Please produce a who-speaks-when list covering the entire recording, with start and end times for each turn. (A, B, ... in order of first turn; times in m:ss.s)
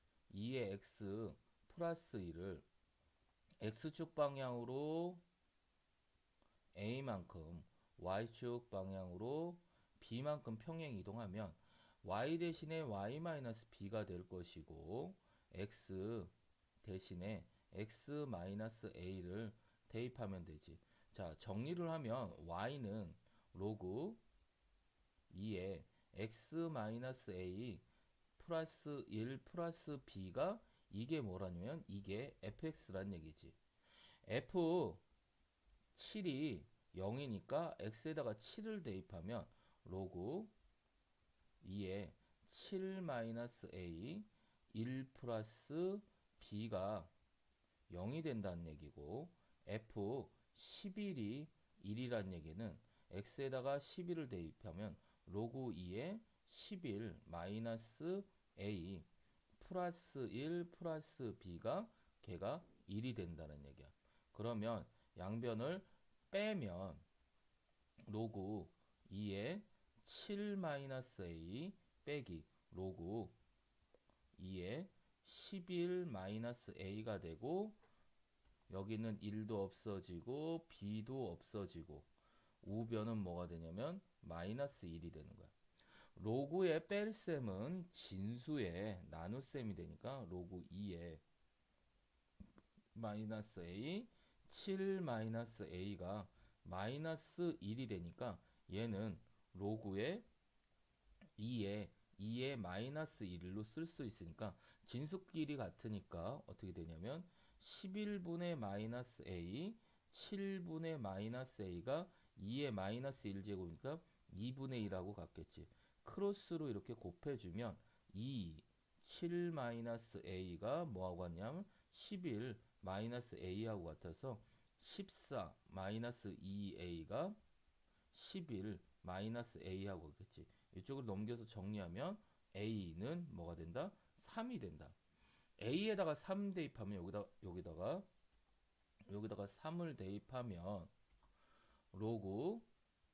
0:00.3-0:02.7 A
0:03.6-0:05.2 A
0:06.8-0:24.2 A
0:25.3-0:27.8 A
0:28.4-0:33.6 A
0:34.2-0:35.0 A
0:35.9-0:40.5 A
0:41.6-0:47.1 A
0:47.9-1:07.0 A
1:08.0-1:13.4 A
1:14.4-1:17.8 A
1:18.7-1:22.1 A
1:22.6-1:25.5 A
1:26.1-1:31.2 A
1:32.9-1:40.2 A
1:41.4-2:07.4 A
2:08.1-2:15.0 A
2:15.6-2:18.1 A
2:19.1-2:20.9 A
2:21.9-2:22.7 A